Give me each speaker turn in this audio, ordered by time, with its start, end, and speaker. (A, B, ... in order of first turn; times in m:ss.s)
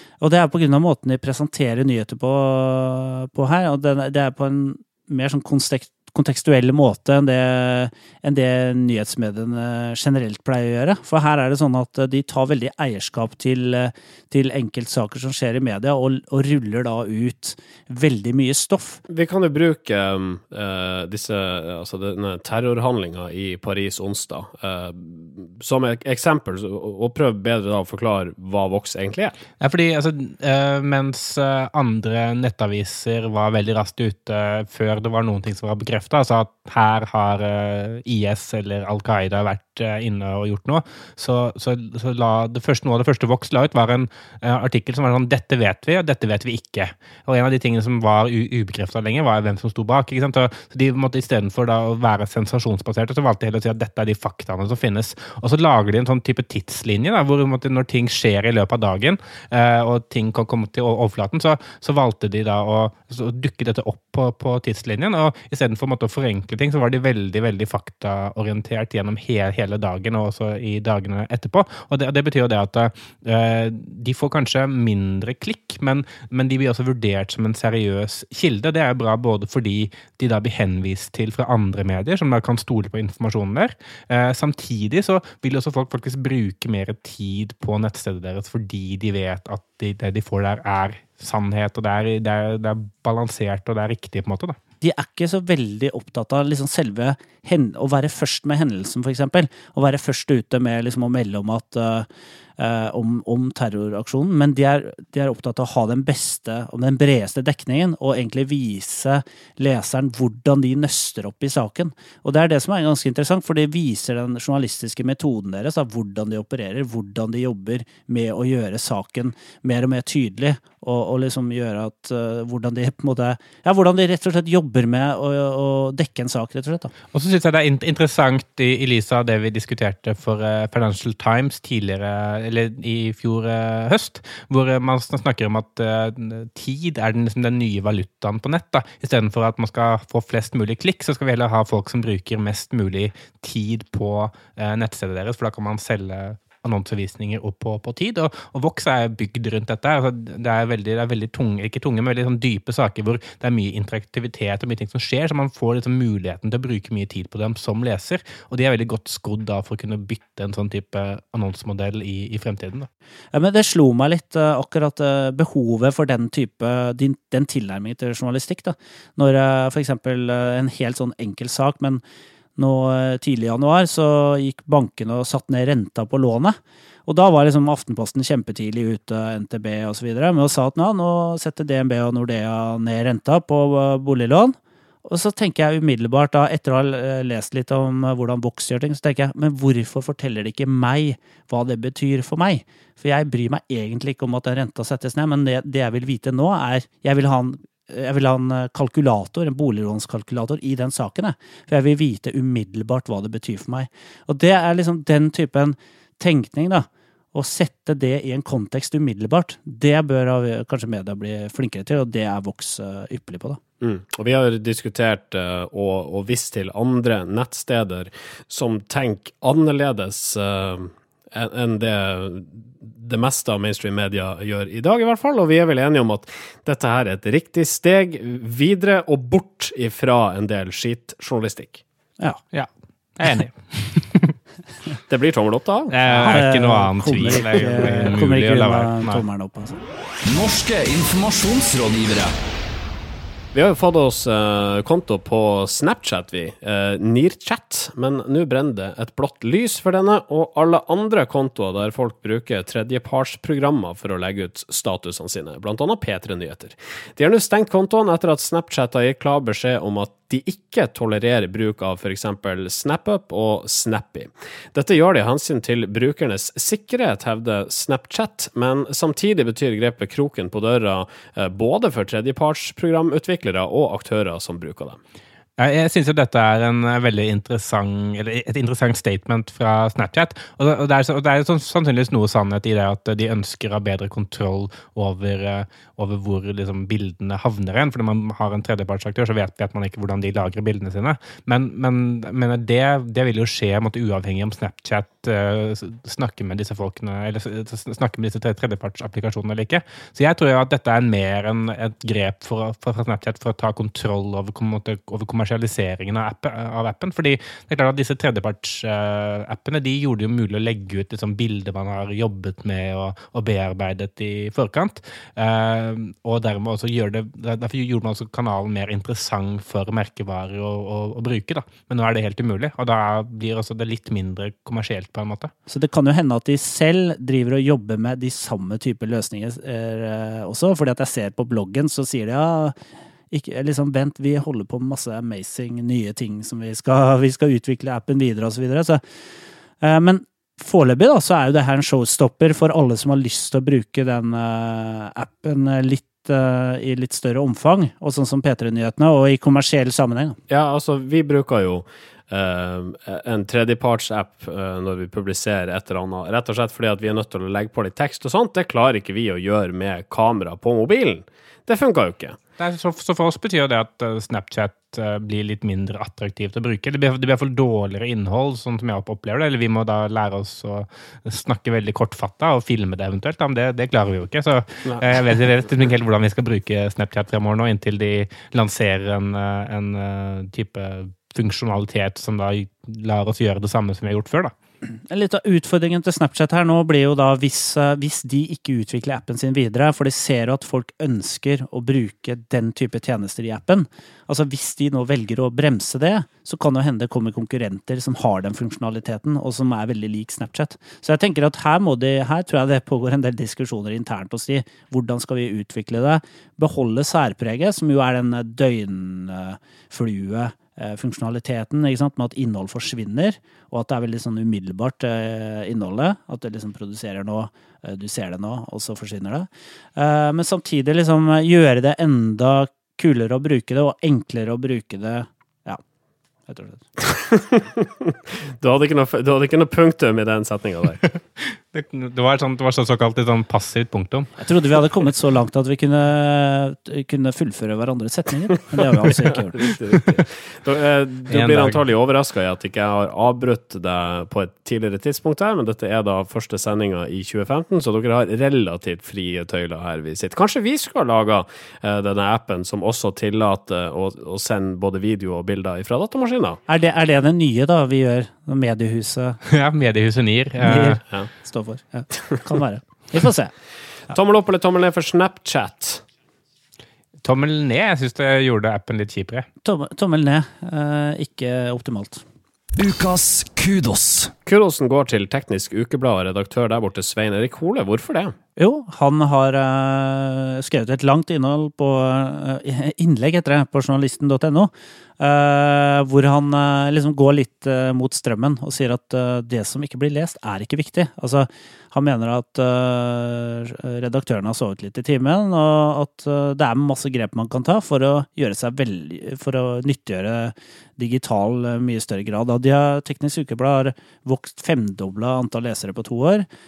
0:00.2-0:19.0 A
0:19.1-0:29.4 B
0:29.6-1:34.6 C
1:34.8-2:06.9 A
2:07.1-2:42.9 C
2:43.3-2:52.0 A
2:52.6-3:33.6 A
3:33.8-3:51.8 B
3:52.5-3:54.4 C
3:55.1-3:56.4 B
3:55.9-3:59.2 C
3:56.1-3:59.8 A
4:00.3-4:02.3 D
4:03.5-4:35.0 B
4:35.6-5:25.5 C
5:25.7-5:32.8 A
5:33.3-5:39.0 A
5:39.8-5:50.4 A
5:50.5-6:02.4 B
6:02.6-6:24.5 C
6:24.8-7:05.8 A
7:06.5-7:06.9 A
7:07.1-7:11.0 B
7:11.0-7:14.3 C
7:14.4-7:19.6 A
7:19.4-7:36.6 B
7:21.3-7:21.8 C
7:36.7-7:39.4 A
7:39.5-7:41.0 C
7:40.6-7:43.5 A
7:44.1-7:46.0 B
7:47.2-7:49.5 C
7:49.6-7:52.2 A
7:52.8-7:54.3 D
7:54.5-7:58.4 B
7:58.6-8:26.5 A